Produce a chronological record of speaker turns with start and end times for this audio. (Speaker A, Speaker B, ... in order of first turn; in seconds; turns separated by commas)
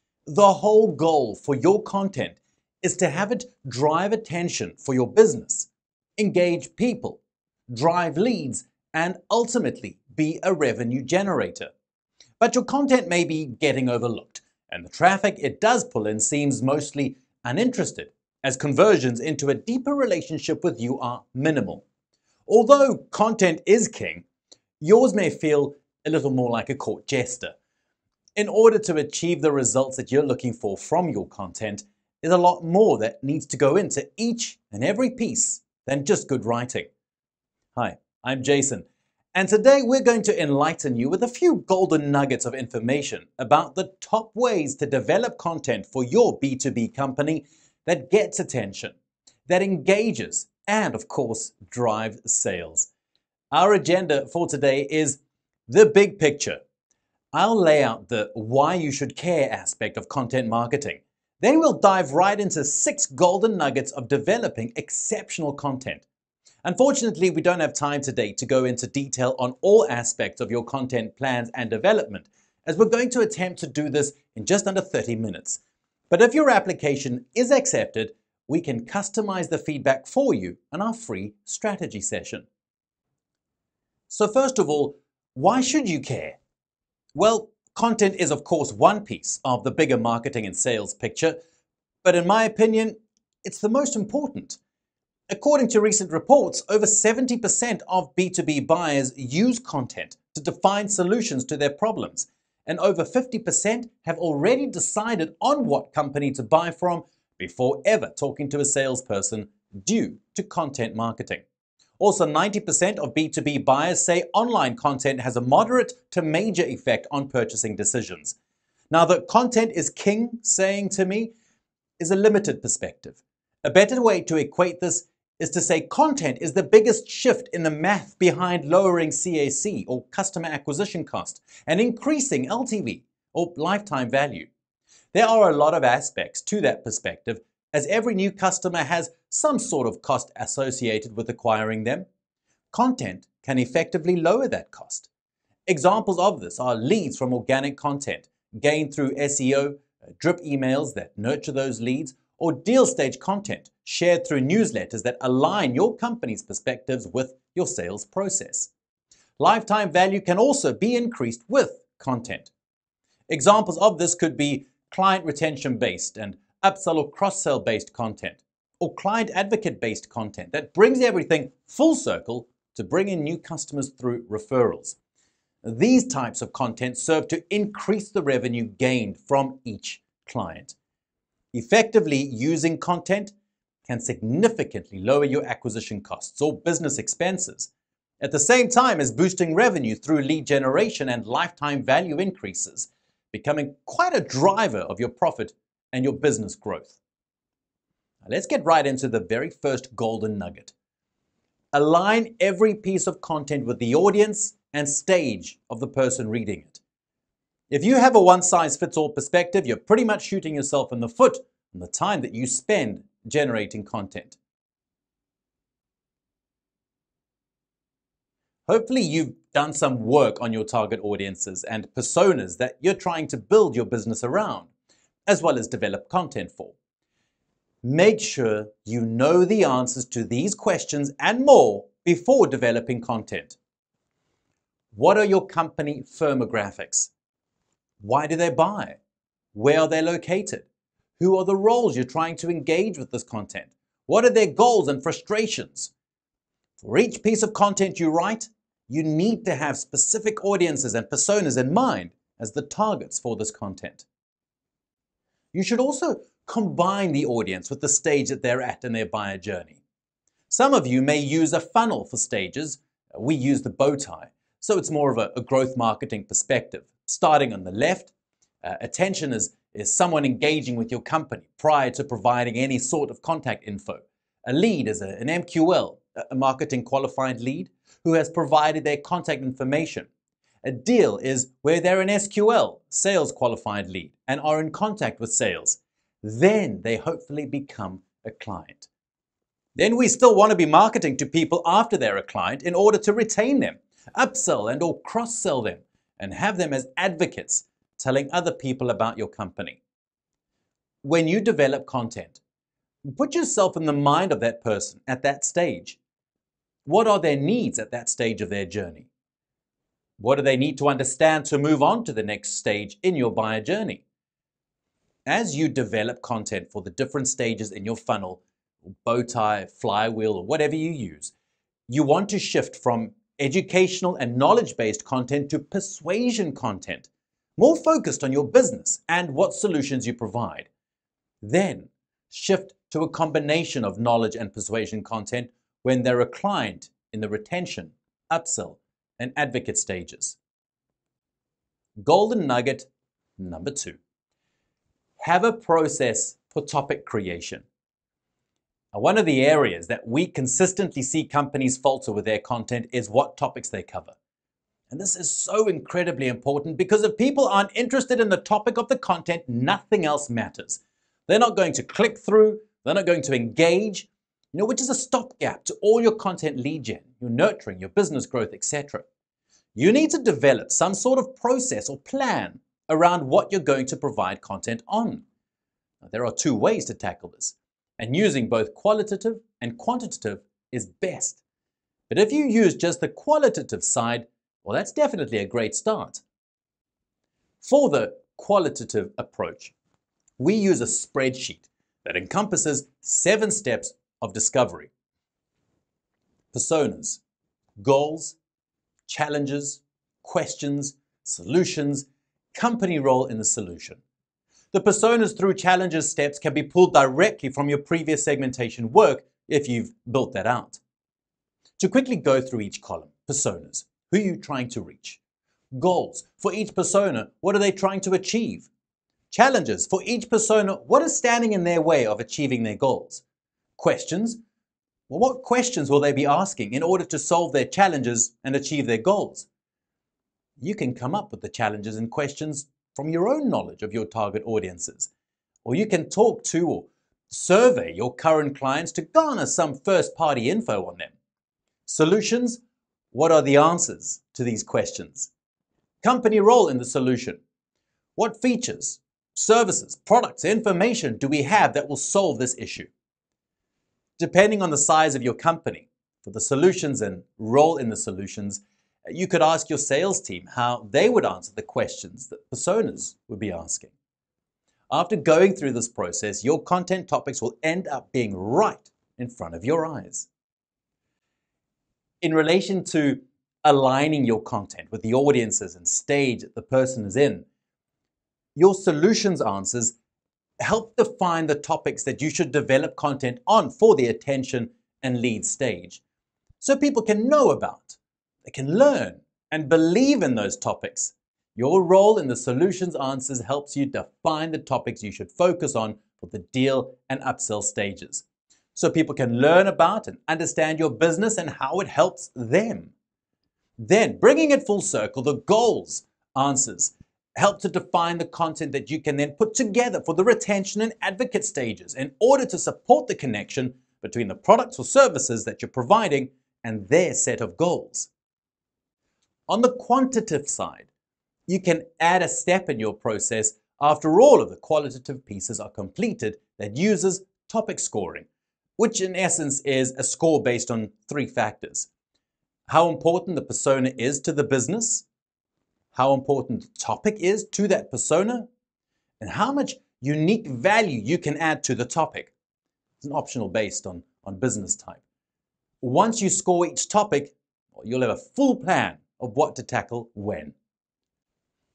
Speaker A: 0.2-11.7, Speaker A: 12.4-21.8, Speaker A: 22.5-24.2, Speaker A: 24.8-27.5, Speaker A: 28.3-36.9, Speaker A: 37.7-52.9, Speaker A: 53.5-56.6, Speaker A: 57.3-66.0, Speaker A: 66.6-82.5, Speaker A: 84.1-86.4, Speaker A: 87.1-91.4, Speaker A: 92.0-94.6, Speaker A: 95.3-111.4, Speaker A: 112.0-118.3, Speaker A: 118.9-121.3, Speaker A: 122.0-134.5, Speaker A: 135.1-142.1, Speaker A: 142.7-145.1, Speaker A: 145.7-158.7, Speaker A: 159.4-162.5, Speaker A: 163.3-175.0, Speaker A: 175.6-180.7, Speaker A: 181.5-183.3, Speaker A: 183.8-187.7, Speaker A: 188.2-196.9, Speaker A: 198.2-200.7, Speaker A: 201.7-206.8, Speaker A: 207.7-214.4, Speaker A: 218.7-224.7, Speaker A: 225.2-226.7, Speaker A: 227.8-233.6, Speaker A: 234.9-237.1, Speaker A: 238.0-239.0, Speaker A: 239.5-240.7, Speaker A: 241.2-245.9, Speaker A: 246.8-254.0, Speaker A: 255.5-259.8, Speaker A: 260.5-268.1, Speaker A: 268.6-280.1, Speaker A: 280.6-288.9, Speaker A: 289.8-299.8, Speaker A: 301.0-302.4, Speaker A: 303.1-306.0, Speaker A: 306.8-309.1, Speaker A: 310.2-314.0, Speaker A: 315.2-318.4, Speaker A: 319.0-321.3, Speaker A: 321.9-330.7, Speaker A: 331.4-340.4, Speaker A: 342.0-344.0, Speaker A: 345.2-347.6, Speaker A: 348.9-354.1, Speaker A: 354.9-369.1, Speaker A: 369.7-375.2, Speaker A: 376.0-381.4, Speaker A: 382.1-386.2, Speaker A: 387.6-389.7, Speaker A: 390.4-394.9, Speaker A: 396.5-397.2, Speaker A: 397.8-398.4, Speaker A: 399.1-404.0, Speaker A: 404.7-410.8, Speaker A: 411.8-415.2, Speaker A: 415.7-418.7, Speaker A: 419.3-423.2, Speaker A: 423.8-424.4, Speaker A: 425.1-429.5, Speaker A: 430.6-435.1, Speaker A: 435.6-441.1, Speaker A: 441.9-442.6, Speaker A: 443.1-445.3, Speaker A: 446.0-447.4, Speaker A: 448.2-452.9, Speaker A: 454.2-463.9, Speaker A: 464.9-470.3, Speaker A: 472.2-477.4, Speaker A: 478.6-479.9, Speaker A: 480.6-486.0, Speaker A: 486.6-502.9, Speaker A: 503.8-518.1, Speaker A: 519.5-520.9, Speaker A: 521.5-528.3, Speaker A: 528.8-531.9, Speaker A: 532.7-535.0, Speaker A: 535.9-538.5, Speaker A: 539.2-542.3, Speaker A: 543.0-545.0, Speaker A: 545.8-550.5